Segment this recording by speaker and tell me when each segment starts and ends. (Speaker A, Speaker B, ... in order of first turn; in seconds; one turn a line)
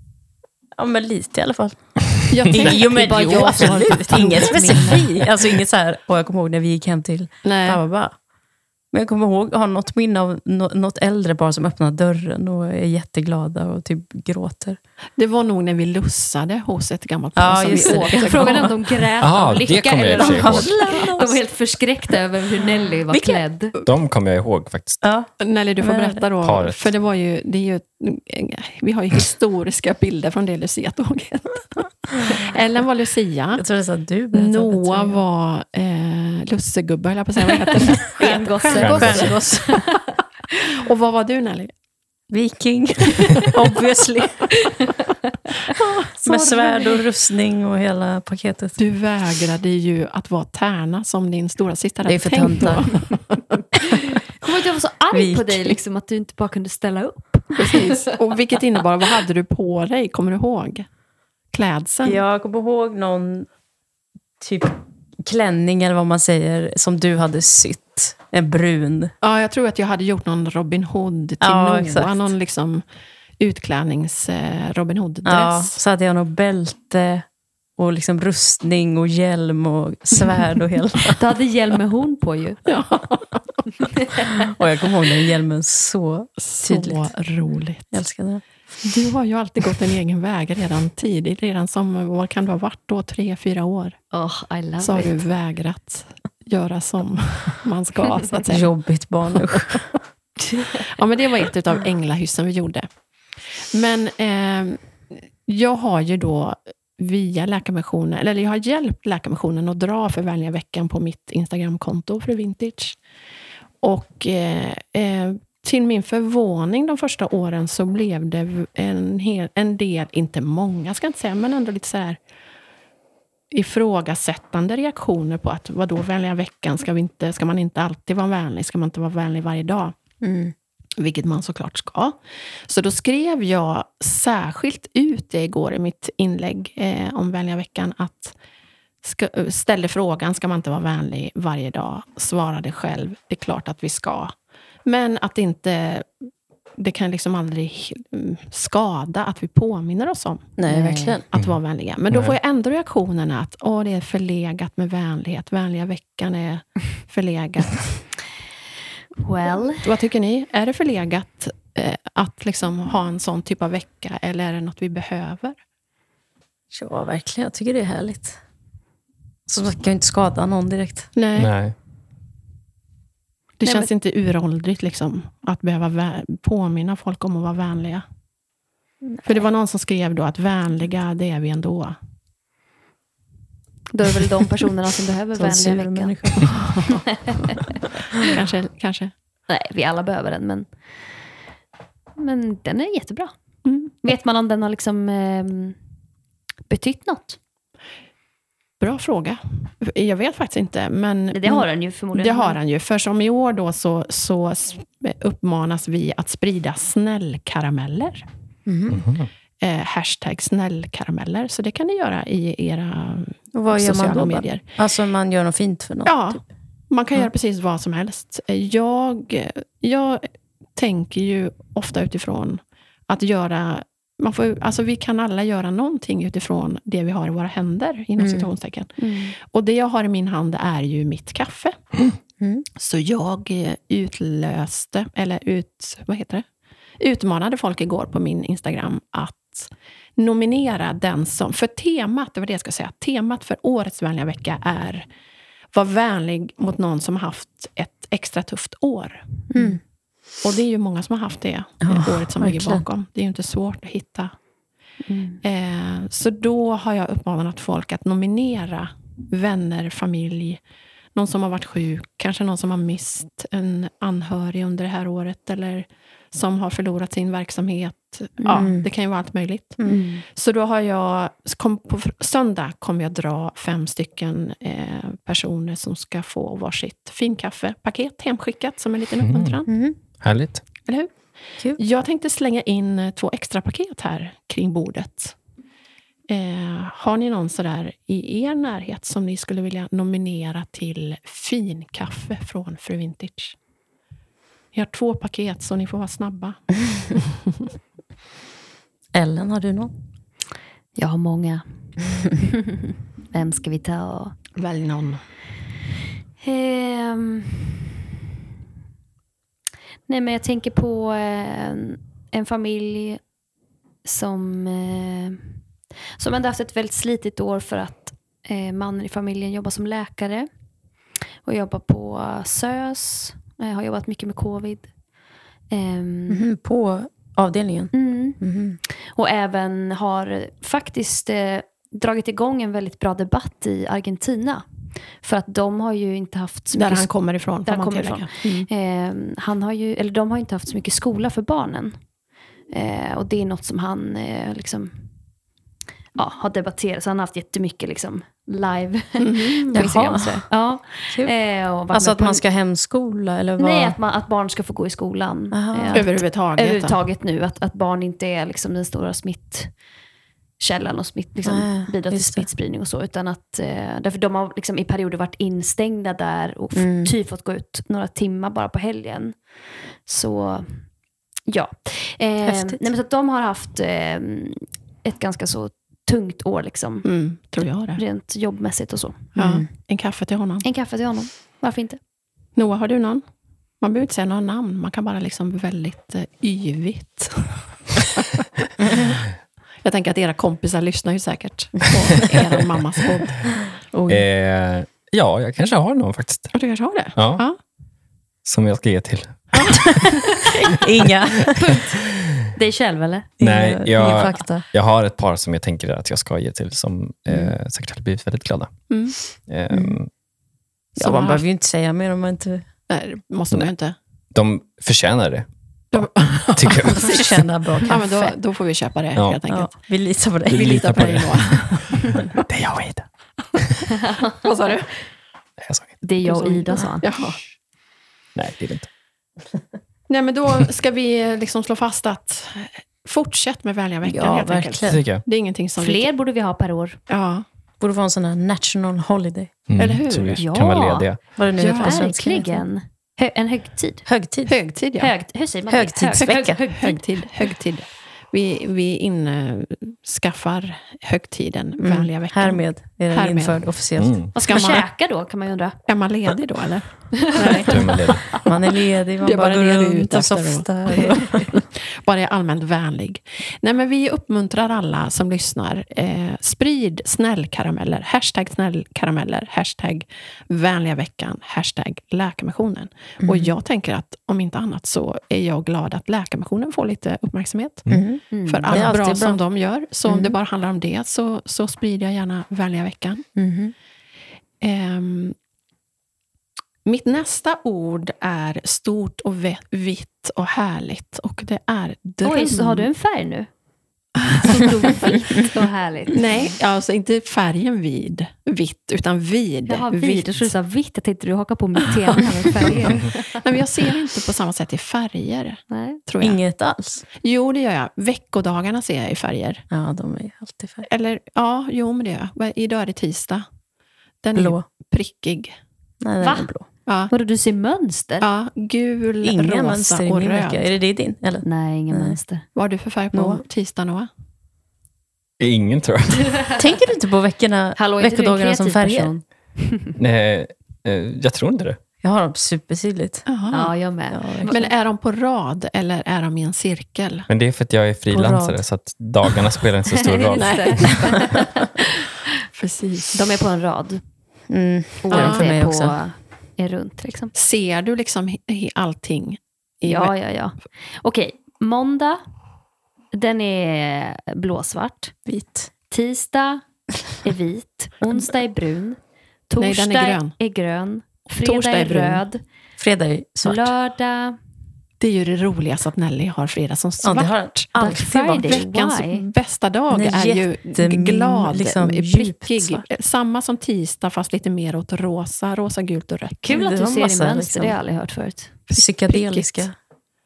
Speaker A: 0.8-8.1
Speaker B: 2.3-4.4
Speaker C: 2.5-5.1
Speaker B: 7.4-7.8
Speaker A: 8.9-14.8
Speaker B: 15.2-18.8
Speaker A: 17.4-18.7
Speaker C: 17.7-23.7
Speaker D: 19.2-20.8
Speaker A: 20.2-21.4
Speaker A: 23.1-23.4
Speaker D: 23.8-25.0
Speaker A: 25.0-25.3
Speaker B: 25.4-33.6
Speaker A: 25.8-26.2
Speaker D: 26.4-26.9
Speaker A: 32.2-32.5
Speaker A: 33.5-35.2
Speaker B: 34.3-39.7
Speaker A: 38.2-39.8
Speaker C: 38.2-39.0
Speaker D: 38.7-39.4
Speaker C: 39.7-40.0
Speaker B: 40.6-41.7
Speaker A: 42.3-44.5
Speaker C: 44.6-45.3
Speaker B: 45.7-46.1
Speaker A: 46.2-48.8
Speaker C: 46.2-47.0
Speaker B: 48.8-53.8
Speaker A: 52.0-52.9
Speaker C: 53.9-58.1
Speaker A: 55.1-55.8
Speaker B: 57.5-60.9
Speaker B: 61.5-62.2
Speaker A: 62.0-63.5
Speaker A: 64.4-69.1
Speaker B: 69.2-72.8
Speaker A: 71.4-72.2
Speaker B: 73.4-75.8
Speaker A: 75.2-77.2
Speaker A: 77.8-81.2
Speaker C: 81.2-82.6
Speaker B: 82.7-83.5
Speaker C: 83.9-84.4
Speaker A: 84.4-87.1
Speaker B: 86.4-87.9
Speaker A: 87.9-88.4
Speaker B: 88.8-94.0
Speaker C: 94.1-95.2
Speaker B: 94.8-98.7
Speaker A: 98.5-100.0
Speaker C: 100.5-100.8
Speaker B: 100.8-102.9
Speaker B: 103.7-104.8
Speaker B: 105.4-113.0
Speaker B: 113.8-122.2
Speaker B: 123.5-129.9
Speaker A: 130.2-130.5
Speaker B: 131.0-138.3
Speaker B: 139.0-144.3
Speaker B: 144.8-146.1
Speaker B: 146.8-158.0
Speaker A: 150.6-151.2
Speaker C: 150.7-151.1
Speaker D: 152.1-152.4
Speaker C: 159.2-159.9
Speaker B: 159.8-165.6
Speaker A: 166.7-168.4
Speaker A: 169.5-171.1
Speaker B: 171.1-171.5
Speaker D: 171.3-171.7
Speaker B: 173.6-178.0
Speaker C: 173.6-173.9
Speaker B: 179.2-181.9
Speaker C: 183.9-187.6
Speaker A: 185.3-186.6
Speaker B: 188.2-189.1
Speaker C: 189.5-190.7
Speaker C: 192.2-193.3
Speaker B: 193.6-193.9
Speaker C: 194.0-195.8
Speaker C: 196.7-197.4
Speaker B: 198.8-208.2
Speaker C: 201.3-202.6
Speaker A: 208.7-209.0
Speaker D: 208.9-209.3
Speaker B: 209.6-214.7
Speaker A: 213.5-216.4
Speaker B: 216.0-231.8
Speaker A: 228.2-228.5
Speaker C: 229.0-229.3
Speaker A: 232.4-232.7
Speaker B: 232.8-236.4
Speaker B: 237.0-245.1
Speaker B: 245.7-249.2
Speaker A: 249.5-249.8
Speaker B: 250.4-254.3
Speaker A: 251.8-252.8
Speaker C: 255.1-255.4
Speaker B: 255.4-260.6
Speaker B: 261.1-279.7
Speaker C: 268.4-268.7
Speaker A: 268.5-268.9
Speaker A: 269.8-270.1
Speaker C: 269.9-270.2
Speaker D: 279.2-279.6
Speaker A: 279.7-279.9
Speaker D: 280.2-280.6
Speaker B: 280.9-281.1
Speaker B: 281.8-285.3
Speaker B: 286.3-293.5
Speaker B: 294.7-297.5
Speaker A: 299.1-299.9
Speaker C: 300.9-301.6
Speaker C: 302.4-304.4
Speaker B: 304.6-305.2
Speaker C: 306.4-307.8
Speaker C: 310.1-313.2
Speaker C: 314.0-315.5
Speaker C: 316.2-320.5
Speaker C: 321.4-324.9
Speaker C: 325.7-326.4
Speaker A: 326.3-328.8
Speaker C: 327.9-328.4
Speaker C: 328.9-334.6
Speaker C: 335.2-337.1
Speaker B: 336.7-338.7
Speaker C: 337.6-342.0
Speaker C: 342.7-345.0
Speaker C: 346.1-352.4
Speaker B: 349.2-349.9
Speaker A: 349.7-350.5
Speaker A: 351.9-354.0
Speaker C: 353.6-359.7
Speaker A: 355.5-356.2
Speaker B: 355.9-357.0
Speaker C: 360.6-369.4
Speaker A: 361.4-362.5
Speaker A: 366.7-367.1
Speaker C: 370.1-370.9
Speaker C: 371.5-377.1
Speaker A: 372.4-372.8
Speaker B: 377.0-378.0
Speaker C: 377.9-379.3
Speaker A: 379.4-379.7
Speaker B: 379.4-380.6
Speaker C: 380.6-382.0
Speaker B: 382.5-383.2
Speaker B: 383.8-388.2
Speaker B: 389.8-393.5
Speaker A: 393.9-394.2
Speaker D: 394.1-396.5
Speaker B: 396.5-397.6
Speaker D: 397.1-397.4
Speaker D: 398.4-400.0
Speaker B: 399.5-399.9
Speaker A: 399.7-401.8
Speaker C: 401.6-403.3
Speaker A: 403.4-404.6
Speaker D: 403.4-408.7
Speaker B: 408.9-409.1
Speaker D: 409.3-410.1
Speaker A: 409.7-410.0
Speaker B: 411.0-411.4
Speaker A: 411.0-412.6
Speaker B: 412.9-413.9
Speaker D: 414.3-417.3
Speaker B: 415.9-417.3
Speaker A: 416.7-418.3
Speaker B: 417.8-419.7
Speaker D: 419.1-419.4
Speaker A: 419.5-421.2
Speaker B: 420.5-422.4
Speaker D: 420.5-423.9
Speaker B: 424.3-424.9
Speaker D: 425.6-425.9
Speaker C: 426.0-427.1
Speaker B: 426.2-427.4
Speaker D: 428.3-428.9
Speaker B: 430.1-436.1
Speaker A: 434.0-435.0
Speaker D: 434.9-435.2
Speaker C: 435.8-437.0
Speaker B: 437.1-437.4
Speaker A: 437.8-439.5
Speaker D: 439.7-441.2
Speaker B: 439.8-440.4
Speaker C: 440.4-441.1
Speaker A: 441.4-442.6
Speaker B: 441.6-442.1
Speaker C: 441.6-444.1
Speaker A: 444.1-444.5
Speaker B: 444.4-445.1
Speaker C: 445.0-447.0
Speaker A: 445.7-446.6
Speaker B: 446.2-453.7
Speaker A: 451.8-454.2
Speaker D: 454.0-454.3
Speaker C: 454.3-455.8
Speaker B: 454.4-454.9
Speaker B: 455.9-458.1
Speaker C: 457.2-458.1
Speaker D: 457.7-458.3
Speaker A: 458.4-461.6
Speaker B: 459.2-461.4
Speaker B: 461.9-477.9
Speaker A: 473.2-473.5
Speaker A: 477.9-479.4
Speaker C: 478.3-478.8
Speaker B: 478.4-483.2
Speaker A: 480.1-480.4
Speaker A: 483.4-483.7
Speaker B: 484.6-485.4
Speaker B: 486.8-492.9
Speaker C: 492.2-493.5
Speaker B: 494.3-495.5
Speaker C: 494.4-496.2
Speaker B: 496.1-500.5
Speaker C: 499.7-503.4
Speaker B: 502.1-506.4
Speaker C: 505.7-506.0
Speaker A: 506.2-507.0
Speaker B: 507.2-509.6
Speaker A: 509.7-510.9
Speaker B: 510.9-513.4
Speaker B: 514.2-515.5
Speaker A: 514.3-514.6
Speaker A: 516.0-516.6
Speaker C: 516.2-516.5
Speaker B: 516.9-517.1
Speaker C: 517.1-518.3
Speaker B: 518.2-520.6
Speaker A: 519.2-522.2
Speaker C: 521.4-522.5
Speaker B: 522.5-524.1
Speaker A: 523.1-523.4
Speaker D: 525.4-526.3
Speaker A: 526.6-529.1
Speaker C: 527.8-529.9
Speaker D: 530.0-531.8
Speaker A: 532.0-533.2
Speaker B: 533.3-533.7
Speaker C: 533.5-534.7
Speaker A: 534.1-534.6
Speaker B: 534.5-537.3
Speaker D: 537.3-541.0
Speaker A: 538.1-538.6
Speaker C: 540.0-542.1
Speaker B: 540.4-541.2
Speaker B: 542.5-543.2
Speaker C: 543.1-544.0
Speaker A: 544.5-545.9
Speaker C: 545.0-547.3
Speaker B: 545.1-545.5
Speaker B: 547.3-550.1
Speaker C: 549.8-552.2
Speaker C: 553.1-555.1
Speaker A: 555.3-555.7
Speaker C: 555.9-559.0
Speaker C: 559.5-562.4
Speaker B: 559.6-560.3
Speaker B: 561.4-562.2
Speaker A: 562.8-563.7
Speaker C: 563.4-564.4
Speaker B: 565.0-576.4
Speaker A: 567.0-568.5
Speaker C: 567.7-569.2
Speaker A: 569.9-572.8
Speaker C: 576.4-578.5
Speaker A: 576.5-577.8
Speaker B: 578.7-579.7
Speaker A: 578.7-579.7